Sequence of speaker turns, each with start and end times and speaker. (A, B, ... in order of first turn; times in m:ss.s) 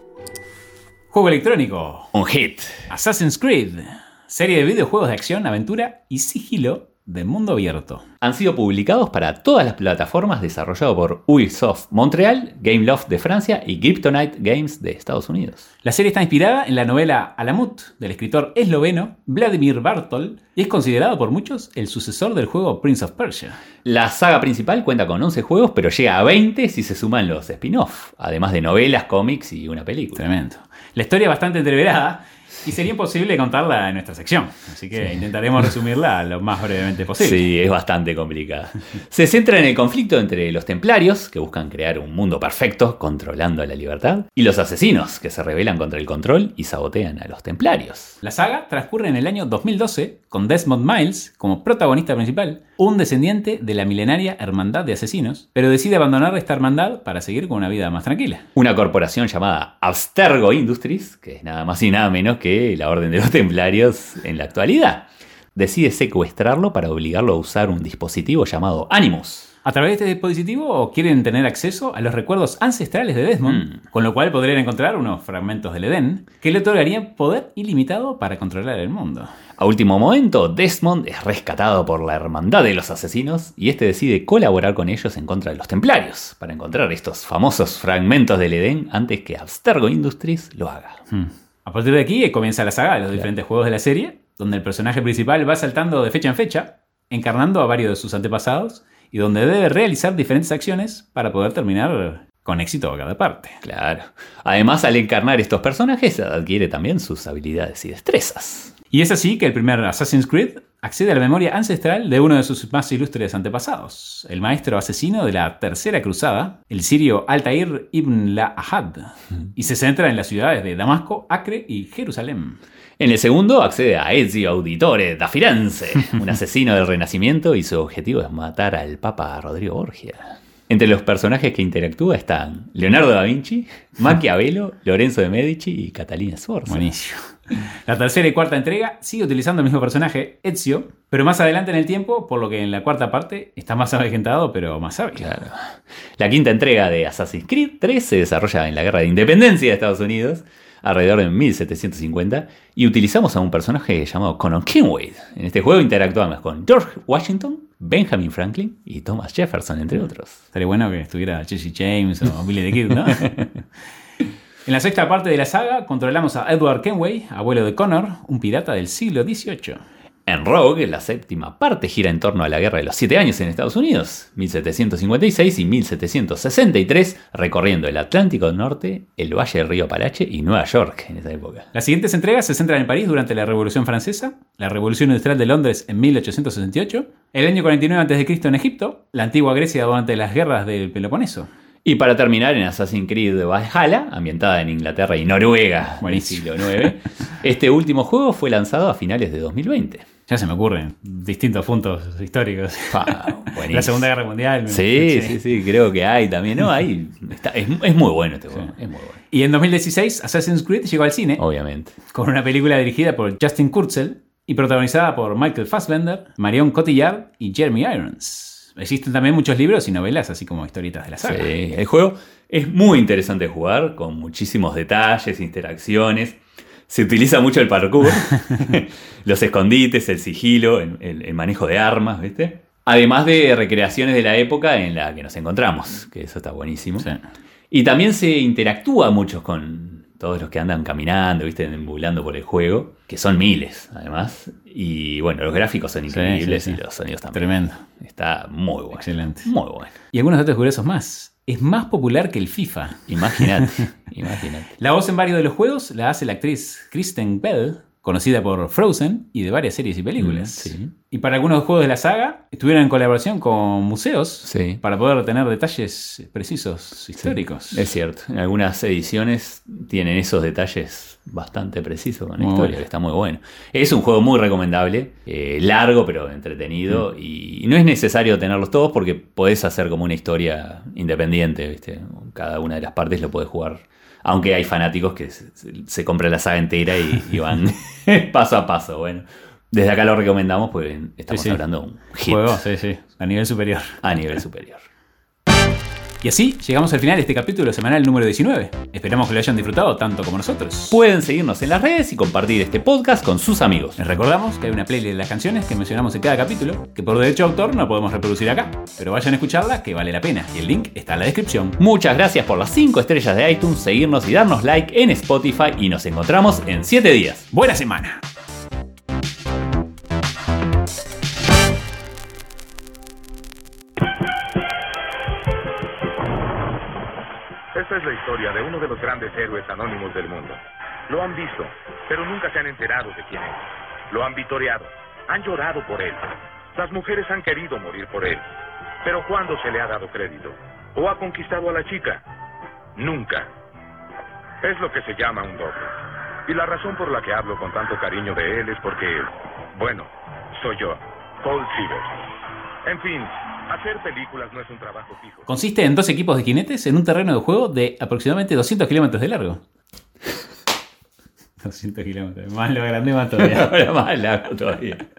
0:01.1-0:02.1 A
0:02.1-0:02.9 B
0:02.9-0:08.0 A
0:08.2-0:15.7 B
0:15.8-0:23.6 A
0:23.8-0:30.3 B
0:30.2-0:37.4 A
0:37.2-0:48.2 B
0:48.2-0:58.4 A
0:58.6-1:09.5 B
1:09.6-1:19.3 A
1:13.4-1:13.8 B
1:19.6-1:31.0 B
1:31.1-1:43.6 A
1:43.6-1:48.7 B
1:48.9-2:02.6 A
2:03.0-2:16.9 B
2:16.7-2:25.3 A
2:25.2-2:40.4 B
2:40.5-2:43.4 A
2:44.6-2:49.8 A
2:50.3-3:01.7 B
3:01.7-3:11.5 A
3:11.8-3:20.1 B
3:16.0-3:16.9 A
3:20.3-3:25.4 A
3:22.9-3:24.1 B
3:24.7-3:29.2 B
3:29.3-3:31.4 A
3:31.4-3:32.0 B
3:32.1-3:41.5 A
3:41.2-3:57.1 B
3:57.7-4:09.9 B
4:06.1-4:06.8 A
4:07.3-4:07.8 A
4:08.9-4:09.5 A
4:10.1-4:13.8 A
4:13.1-4:14.7 B
4:14.8-4:27.9 A
4:20.2-4:20.9 B
4:24.4-4:24.8 B
4:27.2-4:52.6 B
4:32.4-4:32.8 A
4:51.3-4:51.6 A
4:52.3-4:54.0 A
4:54.0-4:54.8 B
4:56.2-5:01.0 A
5:00.9-5:04.0 B
5:04.0-5:11.8 A
5:11.8-5:17.5 B
5:17.5-5:18.2 A
5:27.8-5:38.4 C
5:39.0-5:42.2 C
5:43.0-5:43.5 C
5:44.6-5:46.0 C
5:46.5-5:52.1 C
5:52.9-5:55.4 C
5:55.5-5:59.6 A
6:01.6-6:03.8 A
6:03.4-6:05.0 B